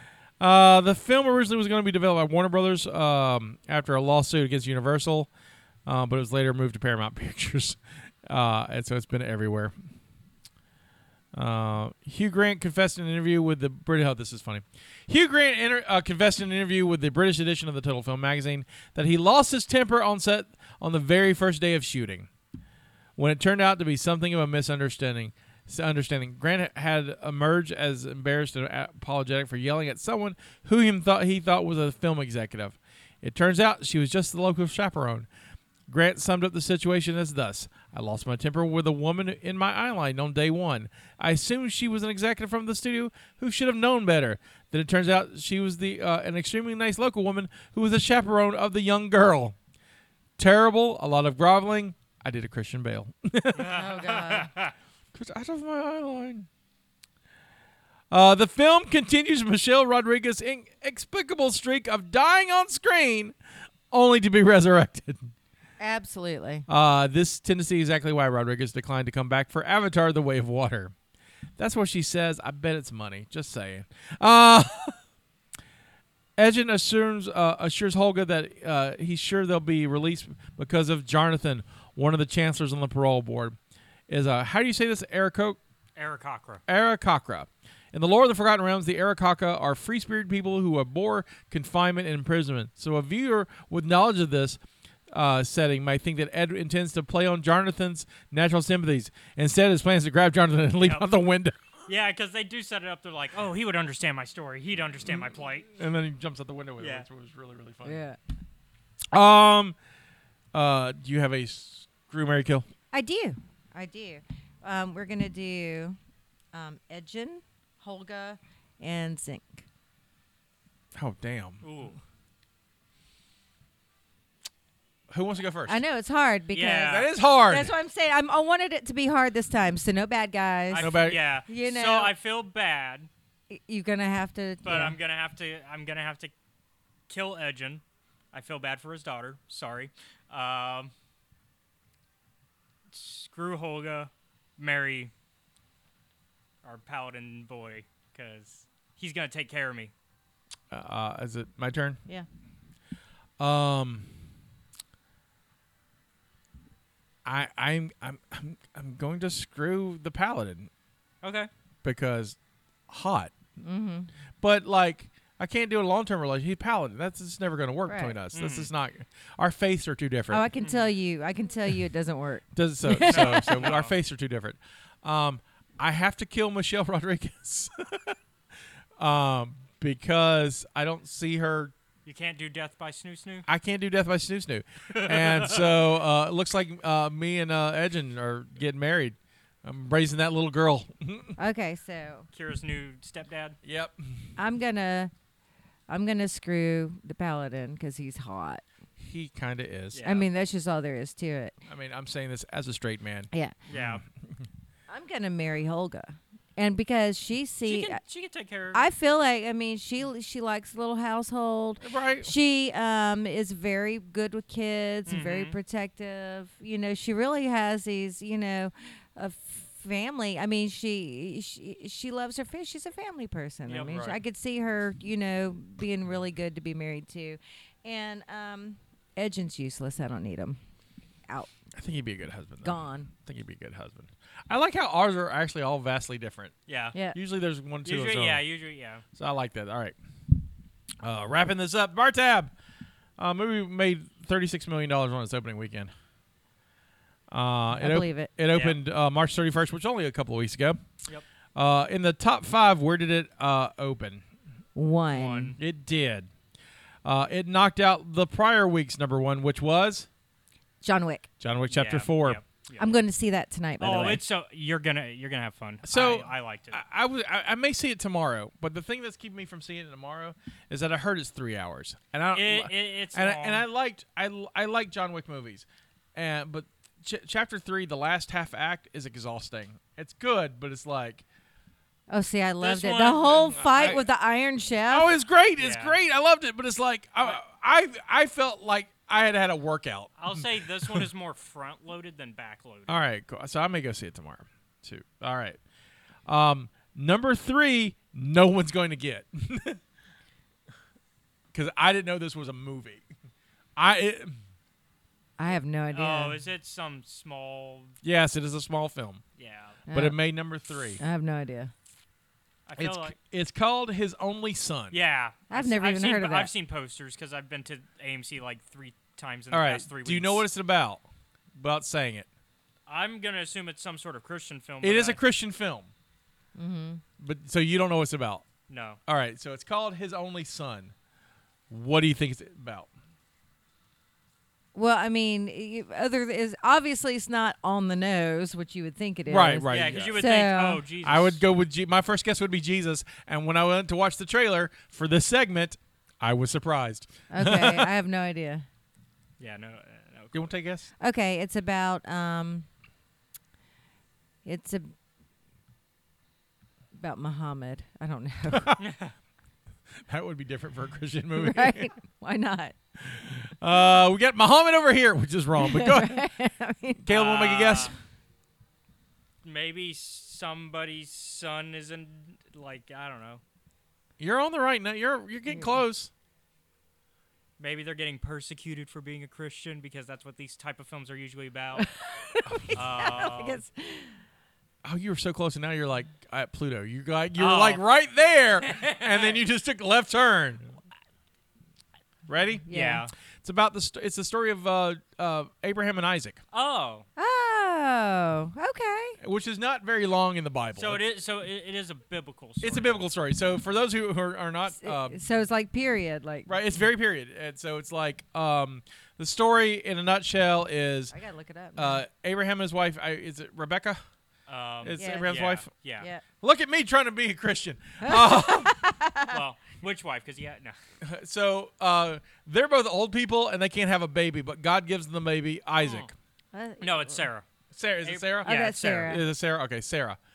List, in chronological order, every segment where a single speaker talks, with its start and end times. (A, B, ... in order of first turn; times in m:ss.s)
0:00.4-0:05.3 A
0:05.8-0:09.7 A
0:11.3-0:22.3 A
0:23.2-0:35.3 A
0:35.9-0:49.6 A
0:50.4-0:53.8 A
0:53.6-0:54.7 B
0:53.7-0:54.5 C
0:55.1-0:56.5 A
0:58.1-1:03.3 A
1:03.9-1:05.3 A
1:05.8-1:06.6 C
1:06.7-1:10.9 A
1:11.6-1:15.0 A
1:16.4-1:23.6 A
1:24.1-1:25.6 A
1:26.0-1:26.6 B
1:26.7-1:34.6 A
1:35.1-1:41.6 A
1:40.8-1:41.0 B
1:41.9-1:45.7 B
1:45.1-1:48.0 A
1:46.8-1:47.0 B
1:47.8-1:48.2 C
1:49.1-1:49.8 A
1:50.5-1:52.6 A
1:52.9-1:56.0 C
1:56.5-1:59.6 C
2:00.9-2:01.7 A
2:01.6-2:02.0 B
2:05.1-2:05.8 A
2:05.7-2:11.0 C
2:06.5-2:07.1 B
2:06.8-2:07.7 A
2:10.7-2:13.1 B
2:10.8-2:11.2 A
2:11.5-2:12.1 C
2:13.5-2:15.0 C
2:14.6-2:16.3 B
2:17.1-2:20.9 B
2:22.9-2:25.1 B
2:26.6-2:29.9 B
2:30.7-2:32.0 A
2:33.4-2:34.1 A
2:37.2-2:40.7 A
2:41.2-2:41.5 B
2:41.8-2:42.4 A
2:42.9-2:43.3 A
2:43.6-2:44.1 C
2:44.4-2:50.4 A
2:47.9-2:48.1 C
2:48.3-2:48.7 B
2:50.3-2:53.6 C
2:50.6-2:50.9 B
2:52.5-2:58.2 A
2:53.0-2:53.9 B
2:59.0-3:01.7 A
3:02.0-3:03.4 B
3:03.5-3:11.4 A
3:04.9-3:05.8 B
3:11.4-3:12.3 C
3:12.3-3:13.6 B
3:13.6-3:14.3 A
3:14.4-3:15.1 C
3:15.9-3:18.6 C
3:19.0-3:20.1 A
3:19.9-3:20.3 B
3:20.0-3:21.6 C
3:21.6-3:24.4 A
3:23.7-3:24.0 B
3:24.9-3:28.0 C
3:27.6-3:28.9 B
3:28.7-3:50.6 C
3:31.8-3:32.3 A
3:35.1-3:35.6 B
3:43.7-3:44.2 B
3:51.7-3:56.5 A
3:52.6-3:53.1 C
3:56.7-3:56.9 B
3:57.1-3:58.4 A
3:57.8-3:59.0 B
3:59.1-4:00.0 A
4:01.0-4:02.5 A
4:03.2-4:05.9 A
4:07.3-4:10.8 A
4:07.7-4:08.3 C
4:08.5-4:08.8 B
4:11.5-4:14.2 A
4:14.7-4:15.6 C
4:15.1-4:15.6 B
4:15.6-4:16.3 A
4:17.0-4:20.1 A
4:20.8-4:21.3 C
4:21.4-4:22.4 A
4:21.7-4:22.9 B
4:22.8-4:24.2 C
4:23.8-4:26.8 B
4:25.8-4:41.2 A
4:32.3-4:33.6 B
4:42.1-4:45.1 C
4:42.6-4:44.0 B
4:43.7-4:44.0 A
4:44.9-4:51.1 A
4:45.6-4:46.0 B
4:50.2-4:53.0 B
4:52.9-4:55.6 A
4:56.3-4:59.8 A
5:01.5-5:03.0 A
5:03.8-5:04.4 A
5:05.4-5:06.4 C
5:05.9-5:07.9 B
5:08.0-5:09.2 A
5:09.4-5:09.8 B
5:09.9-5:10.2 C
5:09.9-5:11.0 A
5:11.0-5:11.7 C
5:12.6-5:13.2 B
5:12.8-5:15.0 A
5:14.9-5:20.4 B
5:15.5-5:16.5 C
5:19.5-5:21.0 A
5:21.5-5:22.3 A
5:22.9-5:25.2 B
5:24.8-5:25.9 A
5:26.6-5:27.0 C
5:27.2-5:28.4 A
5:28.7-5:29.0 B
5:29.1-5:30.9 A
5:31.7-5:32.9 A
5:34.7-5:40.8 C
5:39.3-5:40.3 A
5:39.7-5:41.4 B
5:41.0-5:47.9 A
5:47.3-5:48.6 C
5:49.4-5:50.5 B
5:50.3-5:50.9 A
5:51.0-5:52.7 C
5:54.4-5:54.9 C
5:56.9-5:58.8 C
5:58.5-5:58.8 A
5:58.8-5:59.1 B
6:00.0-6:01.9 A
6:01.4-6:02.7 C
6:03.0-6:06.2 A
6:05.6-6:07.0 C
6:07.0-6:07.9 A
6:07.1-6:07.9 B
6:09.4-6:13.4 B
6:14.2-6:16.1 A
6:17.6-6:21.9 B
6:21.8-6:24.2 C
6:22.5-6:22.8 A
6:22.7-6:23.6 B
6:24.8-6:30.7 A
6:27.4-6:27.8 B
6:28.8-6:29.4 B
6:32.3-6:32.6 A
6:32.7-6:33.0 C
6:32.7-6:33.1 B
6:33.4-6:36.4 A
6:36.5-6:37.0 B
6:37.2-6:39.2 C
6:39.2-6:41.0 A
6:40.7-6:43.0 B
6:42.6-6:45.2 A
6:44.8-6:46.5 C
6:46.5-6:51.1 A
6:51.1-6:52.0 C
6:51.8-6:54.0 A
6:54.5-6:56.1 B
6:54.8-6:55.7 A
6:55.0-6:55.4 C
6:56.4-6:58.7 A
6:58.0-6:59.4 C
6:59.3-7:00.7 B
7:01.0-7:06.1 A
7:05.8-7:06.1 B
7:06.5-7:07.3 C
7:06.8-7:07.4 B
7:07.7-7:10.2 A
7:08.0-7:09.2 B
7:08.4-7:09.2 C